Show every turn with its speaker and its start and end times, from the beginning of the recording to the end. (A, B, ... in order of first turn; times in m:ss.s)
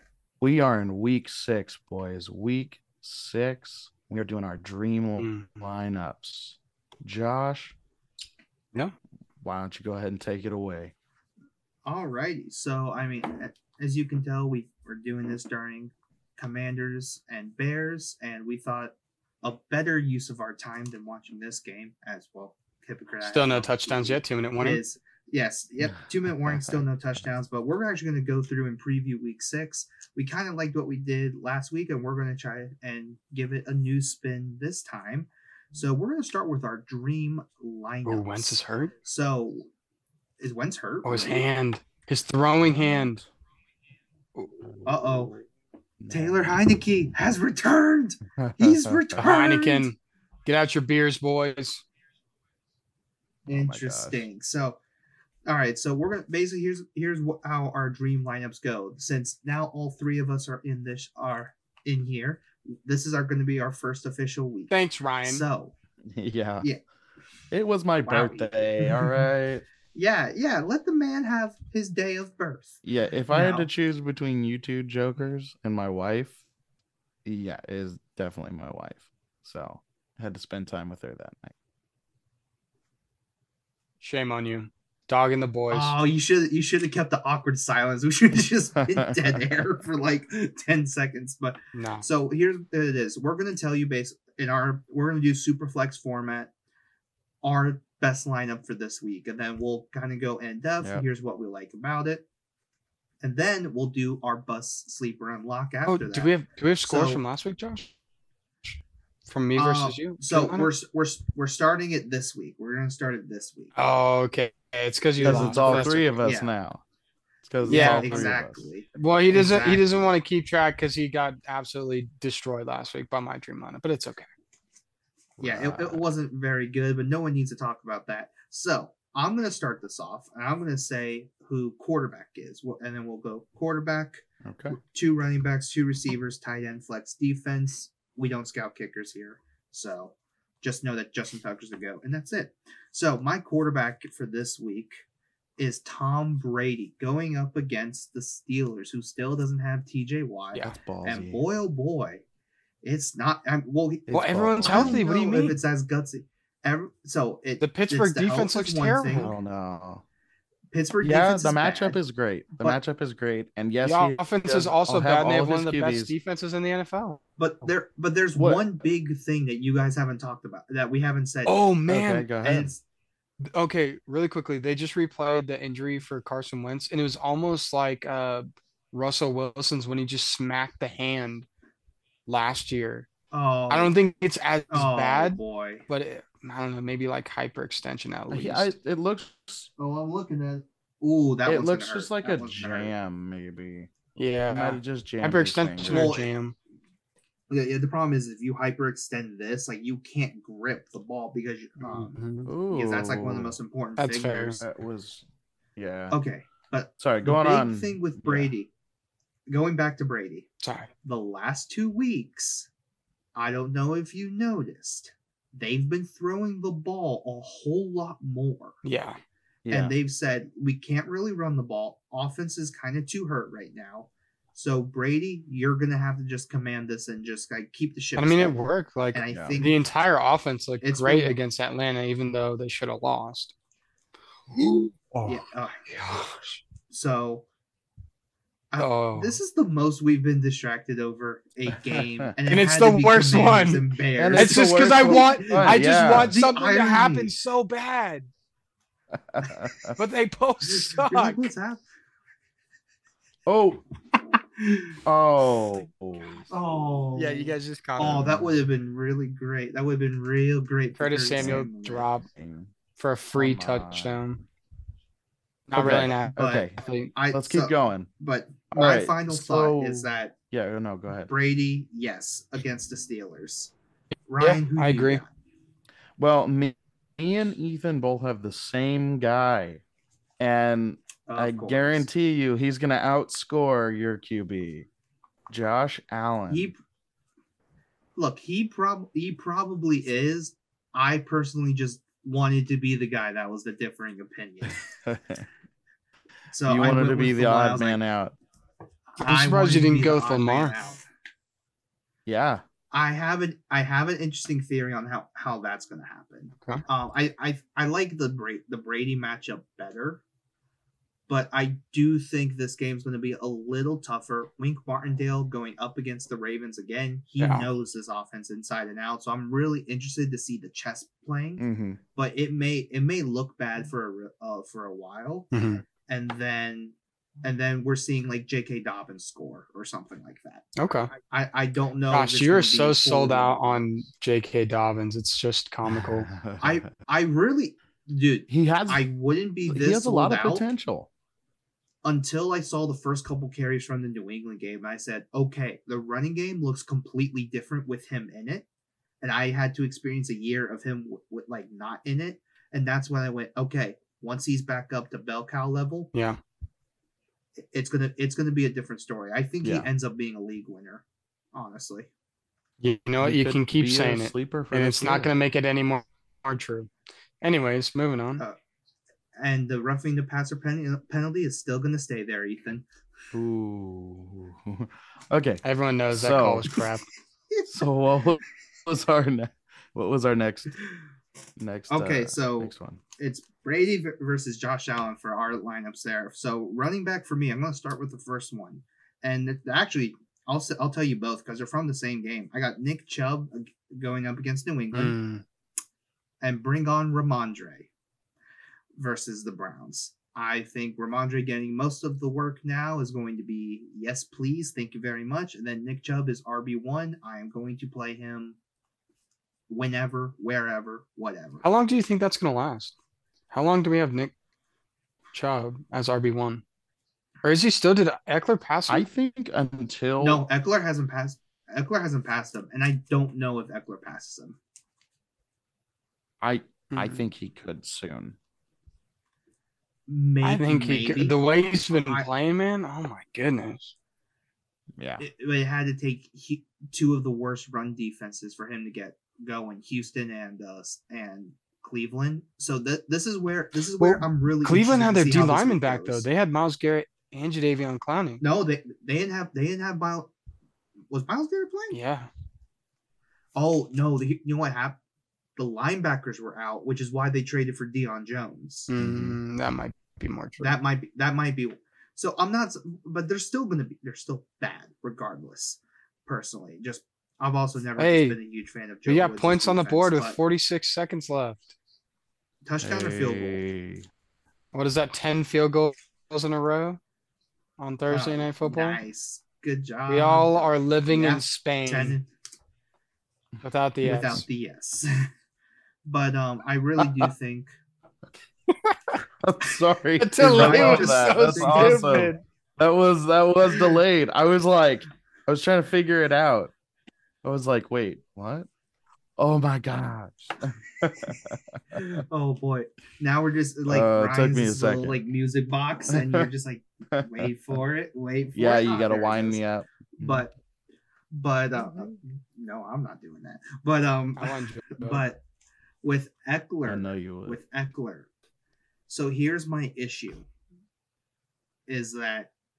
0:00.4-0:07.8 A
0:05.2-0:05.6 B
0:09.4-0:10.9 A
0:11.8-0:39.7 C
0:23.2-0:24.8 B
0:26.4-0:26.8 A
0:38.0-0:38.9 B
0:40.4-0:41.4 C
0:41.0-0:43.2 B
0:42.6-0:43.2 A
0:44.4-0:44.6 B
0:44.8-0:45.4 C
0:46.0-0:46.5 A
0:46.1-0:49.9 C
0:48.4-0:49.3 A
0:49.2-0:51.8 B
0:53.4-0:54.2 A
0:53.5-0:54.8 C
0:55.4-1:05.7 C
1:04.7-1:05.4 B
1:06.1-1:06.7 A
1:07.5-1:09.6 A
1:08.0-1:09.2 C
1:09.9-1:12.8 C
1:12.8-1:16.4 A
1:13.3-1:13.7 C
1:17.2-1:21.5 A
1:24.0-1:25.9 B
1:25.7-1:36.5 C
1:28.8-1:29.6 A
1:31.7-1:32.0 B
1:37.4-1:42.2 C
1:43.2-1:46.3 C
1:45.8-1:47.9 B
1:46.8-1:47.2 C
1:49.3-1:50.7 B
1:49.5-1:53.7 C
1:53.8-1:56.1 B
1:55.2-1:56.5 C
1:55.2-1:56.8 A
1:57.4-1:58.7 A
1:57.6-2:00.0 C
1:57.7-1:58.3 B
1:58.9-2:04.3 B
2:05.4-2:06.0 A
2:05.4-2:25.0 C
2:14.4-2:14.8 A
2:25.6-2:32.2 C
2:30.8-2:31.4 A
2:32.8-2:39.3 C
2:34.1-2:35.0 A
2:34.1-2:35.6 B
2:37.6-2:39.3 B
2:39.1-2:40.0 A
2:40.7-2:42.0 C
2:41.0-2:46.1 A
2:43.8-2:47.2 B
2:47.4-2:51.6 C
2:48.3-2:48.6 A
2:51.4-2:52.3 B
2:51.9-2:52.7 A
2:52.4-2:52.8 C
2:53.5-3:01.5 B
3:02.3-3:03.1 B
3:03.3-3:03.9 C
3:03.7-3:08.7 B
3:04.7-3:05.8 C
3:08.3-3:09.7 A
3:09.8-3:12.9 C
3:11.4-3:16.2 A
3:14.2-3:16.5 B
3:15.8-3:16.3 C
3:17.5-3:24.6 C
3:21.8-3:22.5 B
3:22.4-3:23.6 A
3:24.0-3:24.6 B
3:24.6-3:25.2 A
3:25.8-3:26.2 A
3:26.1-3:28.7 C
3:27.0-3:28.5 A
3:29.5-3:30.5 C
3:30.6-3:30.9 B
3:31.0-3:32.7 C
3:33.4-3:38.8 C
3:38.8-3:39.2 B
3:39.6-3:39.9 A
3:39.7-3:48.6 C
3:48.2-3:53.5 B
3:49.1-3:49.8 C
3:49.3-3:49.6 A
3:50.8-3:51.4 C
3:54.5-3:56.6 B
3:55.2-3:55.9 C
3:56.9-3:57.4 C
3:58.7-4:07.3 C
3:58.8-3:59.4 B
4:01.9-4:02.3 A
4:02.5-4:08.3 B
4:04.2-4:06.4 A
4:09.1-4:10.0 A
4:10.0-4:11.5 B
4:10.6-4:11.8 C
4:13.4-4:13.8 A
4:15.0-4:16.5 A
4:16.5-4:22.1 C
4:17.2-4:18.2 B
4:18.0-4:18.5 A
4:21.0-4:22.3 B
4:21.4-4:21.7 A
4:22.3-4:22.7 A
4:23.0-4:24.4 B
4:23.3-4:24.2 A
4:25.7-4:27.1 B
4:25.7-4:26.8 A
4:26.4-4:30.3 C
4:27.3-4:28.1 A
4:28.7-4:31.3 A
4:31.3-4:33.7 C
4:34.3-4:35.3 C
4:34.4-4:35.2 B
4:36.2-4:39.8 A
4:40.4-4:44.9 A
4:41.3-4:42.0 C
4:45.5-4:46.7 A
4:46.5-4:46.8 C
4:48.2-4:54.8 C
4:55.0-4:55.4 A
4:56.5-4:58.0 C
4:56.6-4:58.3 A
4:59.1-5:01.0 C
4:59.2-5:00.7 B
5:02.2-5:02.6 A
5:02.9-5:10.2 C
5:11.3-5:21.6 C
5:17.4-5:17.7 B
5:21.6-5:22.0 A
5:22.1-5:25.5 C
5:25.5-5:25.8 B
5:26.0-5:33.9 C
5:30.8-5:31.1 B
5:32.1-5:36.3 B
5:35.9-5:36.8 A
5:36.6-5:40.6 C
5:38.5-5:39.0 A
5:39.7-5:41.1 A
5:42.0-5:48.6 C
5:49.2-5:56.1 C
5:56.1-5:56.4 B
5:57.7-6:02.1 C
5:59.6-5:59.9 A
6:02.8-6:06.9 B
6:03.2-6:05.3 A
6:07.4-6:08.4 B
6:09.4-6:12.8 C
6:13.3-6:16.7 A
6:15.6-6:17.1 B
6:17.5-6:17.8 C
6:17.7-6:20.7 A
6:21.6-6:23.0 A
6:21.9-6:35.2 C
6:34.9-6:35.4 B
6:36.4-6:37.9 C
6:39.0-6:48.6 C
6:49.7-6:51.6 C
6:51.6-6:52.9 B
6:53.5-6:54.3 B
6:55.3-6:56.6 B
6:57.4-6:59.1 B
6:58.9-7:00.4 A
7:00.2-7:04.6 C
7:06.4-7:08.4 A
7:06.9-7:07.3 B
7:10.1-7:11.4 C
7:10.4-7:13.9 B
7:11.9-7:12.3 C
7:15.0-7:15.2 A
7:15.2-7:26.2 C
7:24.0-7:28.4 B
7:28.4-7:30.3 C
7:31.1-7:32.0 C
7:31.9-7:32.3 B
7:33.6-7:35.0 C
7:35.6-7:38.9 C
7:38.9-7:40.8 B
7:39.0-7:39.4 A
7:40.6-7:50.4 C
7:48.0-7:48.4 B
7:49.0-7:51.7 B
7:52.6-7:53.6 C
7:52.8-7:54.1 A
7:54.7-7:57.0 B
7:57.8-7:59.0 B
7:58.1-8:02.3 C
8:00.1-8:02.2 B
8:03.6-8:04.4 B
8:04.0-8:05.3 C
8:06.0-8:07.7 C
8:07.0-8:07.3 A
8:08.7-8:09.1 B
8:09.4-8:16.7 A
8:10.2-8:12.4 B
8:10.4-8:12.3 C
8:17.4-8:18.7 A
8:19.4-8:22.0 A
8:21.9-8:29.6 C
8:23.9-8:25.2 A
8:26.1-8:26.5 A
8:27.1-8:27.5 A
8:28.5-8:30.4 A
8:30.2-8:30.5 C
8:31.3-8:35.4 C
8:34.4-8:35.2 B
8:36.0-8:38.3 C
8:36.8-8:37.6 A
8:39.1-8:40.5 C
8:41.9-8:42.5 C